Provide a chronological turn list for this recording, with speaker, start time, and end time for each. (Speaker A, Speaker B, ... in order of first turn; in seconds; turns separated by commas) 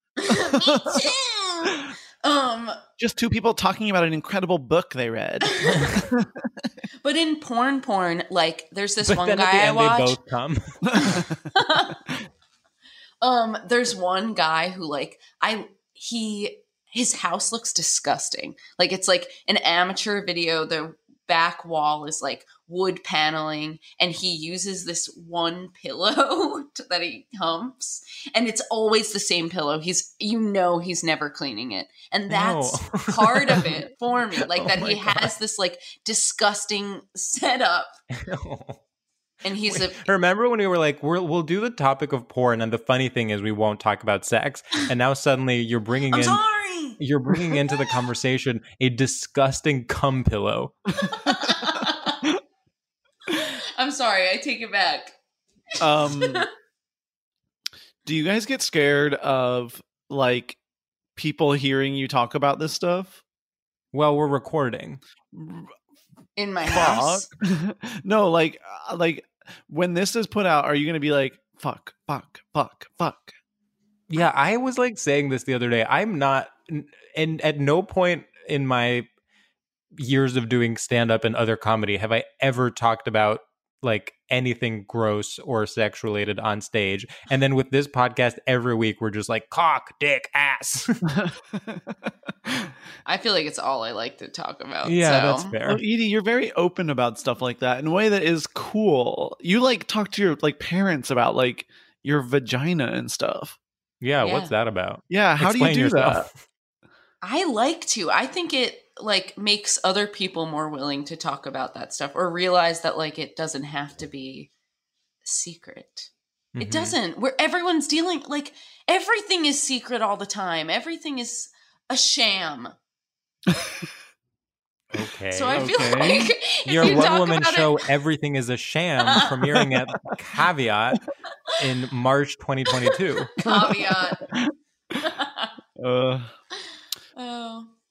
Speaker A: 0.2-2.8, Speaker B: 0.3-1.0, Speaker B: 3.0-6.5, Speaker A: 5.5-5.9, Speaker A: 7.0-10.2, Speaker C: 9.0-10.6, Speaker B: 10.8-11.4, Speaker A: 11.0-12.0, Speaker A: 13.2-38.0, Speaker C: 32.3-33.7, Speaker C: 34.6-35.3, Speaker C: 38.1-38.8, Speaker A: 39.4-40.1, Speaker C: 39.6-46.4, Speaker A: 46.1-47.0, Speaker C: 47.0-50.7, Speaker B: 51.0-51.7, Speaker A: 51.1-52.2, Speaker A: 53.3-55.1, Speaker B: 55.8-56.4, Speaker A: 55.8-56.5, Speaker B: 58.0-60.6, Speaker B: 61.1-63.2, Speaker C: 63.9-65.0, Speaker B: 65.3-65.7, Speaker A: 66.4-67.3, Speaker B: 66.6-73.3, Speaker C: 74.1-79.1, Speaker C: 80.0-91.0, Speaker B: 91.1-92.7, Speaker A: 93.0-95.5, Speaker C: 94.8-95.8, Speaker B: 95.6-103.6, Speaker C: 104.0-106.3, Speaker A: 104.2-104.5, Speaker B: 105.1-106.3, Speaker A: 107.2-114.5, Speaker A: 115.2-122.7, Speaker C: 116.5-117.0, Speaker B: 123.5-123.8, Speaker C: 124.9-126.0, Speaker A: 125.3-127.8, Speaker B: 125.5-126.3, Speaker C: 126.7-131.0, Speaker C: 131.6-133.3, Speaker A: 133.4-134.2, Speaker B: 133.4-134.5, Speaker A: 135.0-135.5, Speaker B: 135.8-136.3, Speaker A: 137.2-137.7